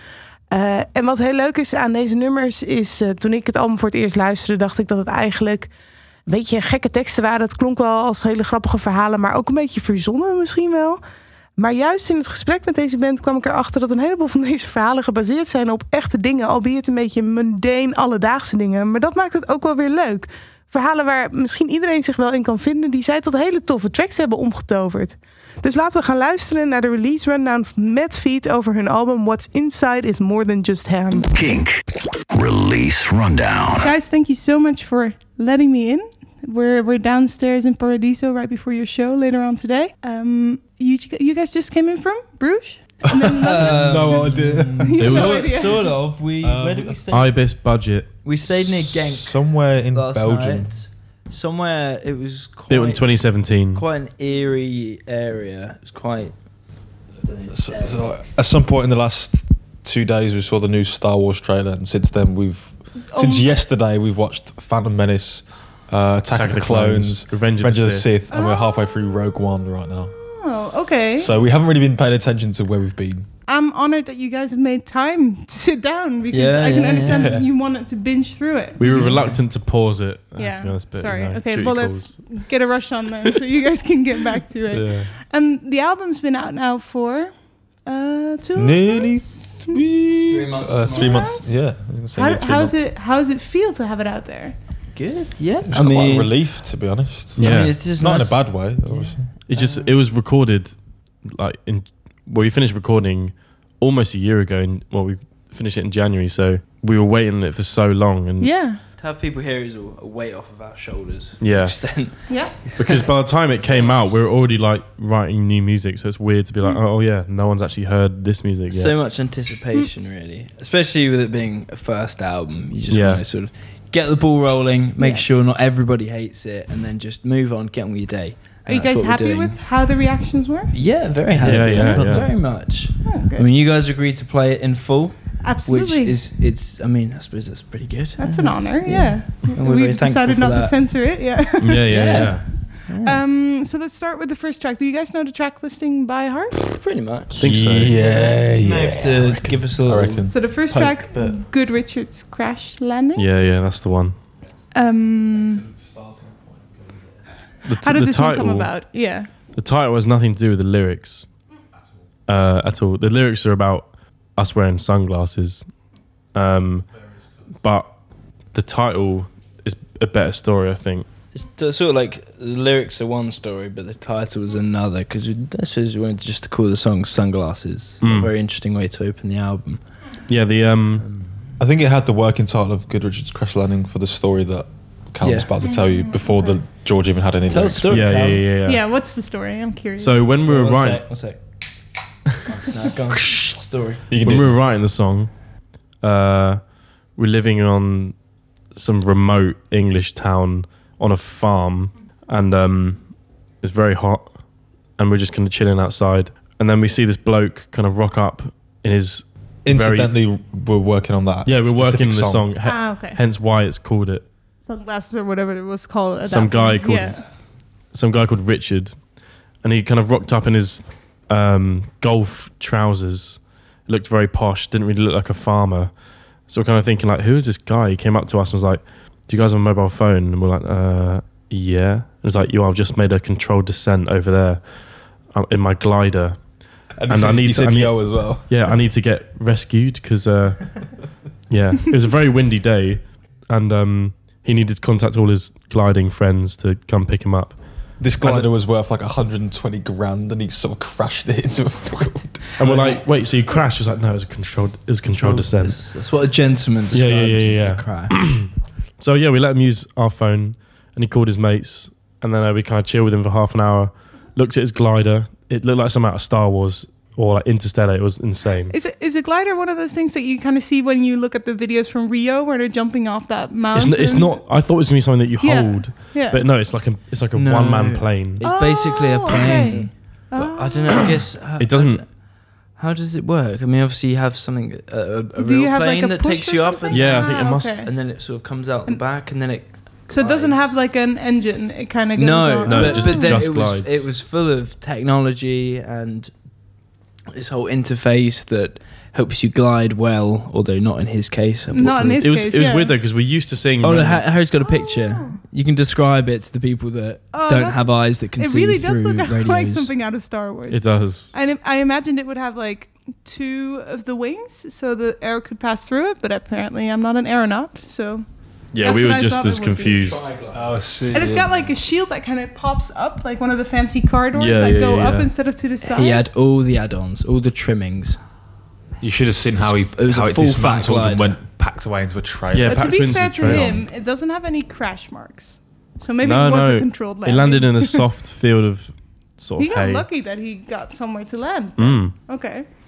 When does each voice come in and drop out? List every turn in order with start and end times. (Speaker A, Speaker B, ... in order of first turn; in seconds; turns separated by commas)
Speaker A: 0.5-5.7, Speaker A: 6.3-11.0, Speaker A: 11.6-31.3, Speaker B: 31.3-33.9, Speaker A: 33.8-44.2, Speaker C: 43.4-47.0, Speaker D: 43.4-47.5, Speaker A: 44.9-46.0, Speaker E: 45.0-45.5, Speaker E: 47.1-48.2, Speaker D: 48.2-58.5, Speaker C: 48.5-50.8, Speaker E: 52.7-53.9, Speaker C: 57.5-70.3, Speaker A: 63.1-63.5, Speaker E: 66.3-68.1, Speaker A: 68.3-69.0, Speaker A: 70.1-71.3, Speaker C: 71.2-73.3, Speaker A: 73.5-78.8, Speaker D: 76.3-77.4, Speaker C: 77.0-77.5, Speaker E: 78.8-82.4, Speaker C: 78.8-79.3, Speaker D: 78.8-79.5, Speaker A: 80.3-89.6, Speaker E: 84.7-85.1, Speaker C: 88.6-92.8, Speaker D: 90.3-91.4, Speaker A: 90.9-94.5, Speaker D: 94.9-96.5, Speaker C: 95.7-99.3, Speaker D: 97.3-100.0, Speaker E: 97.4-97.8, Speaker E: 99.5-108.6, Speaker A: 108.4-108.8, Speaker D: 109.0-114.1, Speaker E: 111.4-119.0, Speaker A: 112.3-112.5, Speaker D: 118.7-129.6, Speaker E: 122.9-123.2, Speaker A: 125.0-125.3, Speaker A: 128.7-133.5, Speaker D: 130.7-140.8, Speaker E: 131.4-132.3, Speaker A: 135.4-136.2, Speaker A: 138.2-146.6, Speaker E: 141.6-142.6, Speaker D: 141.9-143.2, Speaker D: 146.7-151.4, Speaker C: 147.3-150.3, Speaker E: 147.4-147.9, Speaker A: 150.3-153.3, Speaker E: 153.2-154.3, Speaker A: 154.7-155.6, Speaker C: 155.6-157.2, Speaker E: 157.6-161.4, Speaker A: 157.8-159.3, Speaker E: 162.3-171.1, Speaker D: 171.3-180.2, Speaker E: 178.0-178.3, Speaker E: 180.3-181.1, Speaker D: 181.0-181.4, Speaker C: 181.6-188.2, Speaker D: 185.2-185.5, Speaker A: 185.6-186.6, Speaker D: 187.5-188.4, Speaker E: 187.9-188.9, Speaker A: 188.7-190.3, Speaker E: 190.0-191.3, Speaker D: 190.4-191.6, Speaker D: 192.5-194.1, Speaker C: 193.1-194.6, Speaker E: 194.2-210.1, Speaker C: 209.6-212.5, Speaker E: 211.4-214.2, Speaker A: 212.6-213.2, Speaker A: 214.6-217.2, Speaker E: 216.2-248.5, Speaker C: 236.9-238.8, Speaker C: 248.0-252.5, Speaker E: 252.6-256.0, Speaker D: 252.6-253.2, Speaker D: 255.1-258.5, Speaker E: 256.9-268.8, Speaker A: 268.7-274.5, Speaker E: 273.7-278.4, Speaker A: 275.4-276.4, Speaker D: 277.3-290.8, Speaker A: 278.4-281.1, Speaker E: 281.6-282.1, Speaker A: 285.4-287.9, Speaker E: 286.9-287.9, Speaker A: 290.1-293.4, Speaker D: 292.2-296.7, Speaker E: 292.7-294.1, Speaker D: 297.3-302.4, Speaker A: 301.7-302.9, Speaker E: 302.2-304.4, Speaker D: 303.8-309.9, Speaker A: 304.6-305.4, Speaker A: 307.3-320.2, Speaker E: 310.7-311.3, Speaker E: 318.7-320.4, Speaker D: 320.0-320.9, Speaker C: 320.5-321.5, Speaker A: 321.1-326.2, Speaker E: 324.4-325.3, Speaker D: 325.8-328.2, Speaker C: 329.0-333.7, Speaker D: 329.9-331.4, Speaker E: 332.5-333.9, Speaker A: 332.7-338.0, Speaker E: 336.2-340.1, Speaker A: 339.6-342.7, Speaker E: 341.8-342.3